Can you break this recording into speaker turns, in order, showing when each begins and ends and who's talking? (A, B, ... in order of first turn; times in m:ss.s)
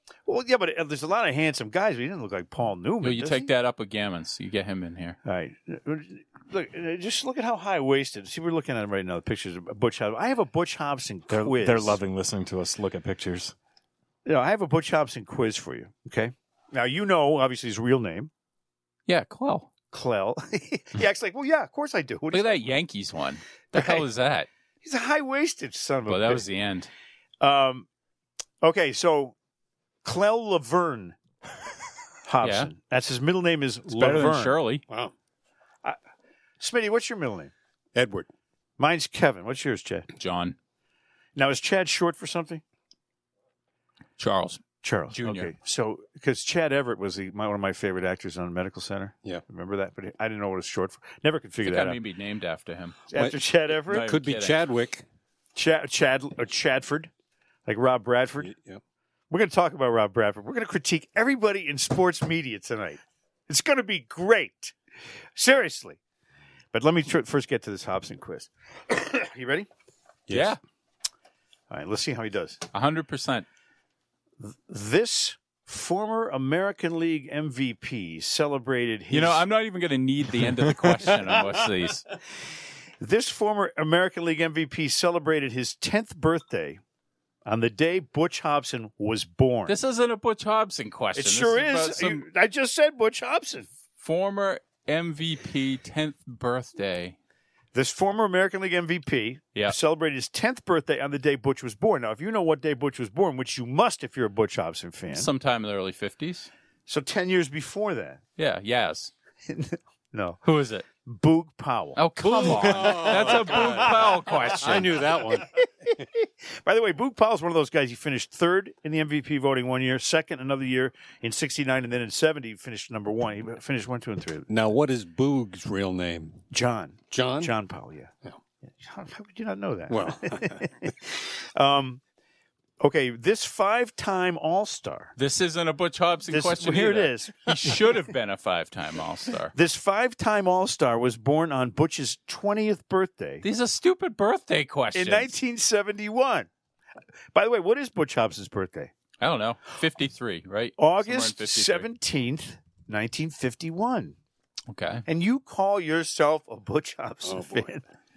0:00.3-0:03.5 A
0:03.0-0:05.2 B
0:05.2-0:12.0 A
0:11.3-0:13.5 C
0:14.2-0:18.3 A
0:19.1-0:19.7 B
0:19.9-0:22.7 A
0:22.3-0:24.5 B
0:23.7-0:24.0 A
0:24.8-0:26.4 A
0:26.1-0:26.9 B
0:27.4-0:27.9 A
0:28.6-0:29.3 A
0:30.0-0:31.2 A
0:32.2-0:34.6 A
0:32.4-0:32.7 B
0:33.9-0:34.8 B
0:34.9-0:35.1 D
0:36.6-0:37.5 A
0:37.9-0:38.3 D
0:38.8-0:40.1 A
0:40.2-0:40.6 B
0:41.4-0:42.6 A
0:44.2-0:45.5 B
0:44.8-0:52.0 A
0:51.6-0:53.0 B
0:53.1-0:54.1 A
0:53.1-0:55.0 D
0:53.8-0:54.6 B
0:55.6-0:57.1 A
0:57.6-0:58.5 A
0:58.4-0:58.8 D
0:59.3-1:04.7 A
1:05.4-1:06.0 A
1:06.7-1:09.7 A
1:10.3-1:10.6 D
1:10.3-1:10.6 B
1:11.7-1:12.6 A
1:12.7-1:13.4 B
1:14.4-1:19.4 A
1:19.1-1:22.0 B
1:23.0-1:26.8 A
1:27.4-1:29.8 A
1:29.7-1:32.2 B
1:31.1-1:33.7 A
1:34.0-1:37.2 B
1:37.7-1:45.3 A
1:45.1-1:46.5 B
1:46.9-1:48.2 A
1:48.4-1:49.1 B
1:49.5-1:50.4 A
1:50.4-1:50.8 B
1:51.0-2:04.5 A
1:52.0-1:55.0 B
1:52.2-1:55.5 D
2:04.5-2:06.4 D
2:06.5-2:08.1 A
2:07.1-2:07.5 D
2:08.8-2:12.0 A
2:09.9-2:10.7 D
2:12.8-2:15.1 A
2:15.2-2:19.5 B
2:16.3-2:18.0 A
2:19.5-2:23.4 A
2:23.4-2:25.3 B
2:24.9-2:26.5 A
2:27.3-2:28.9 A
2:29.2-2:31.9 B
2:30.8-2:34.2 A
2:34.7-2:35.0 B
2:35.0-2:37.8 A
2:37.2-2:37.7 D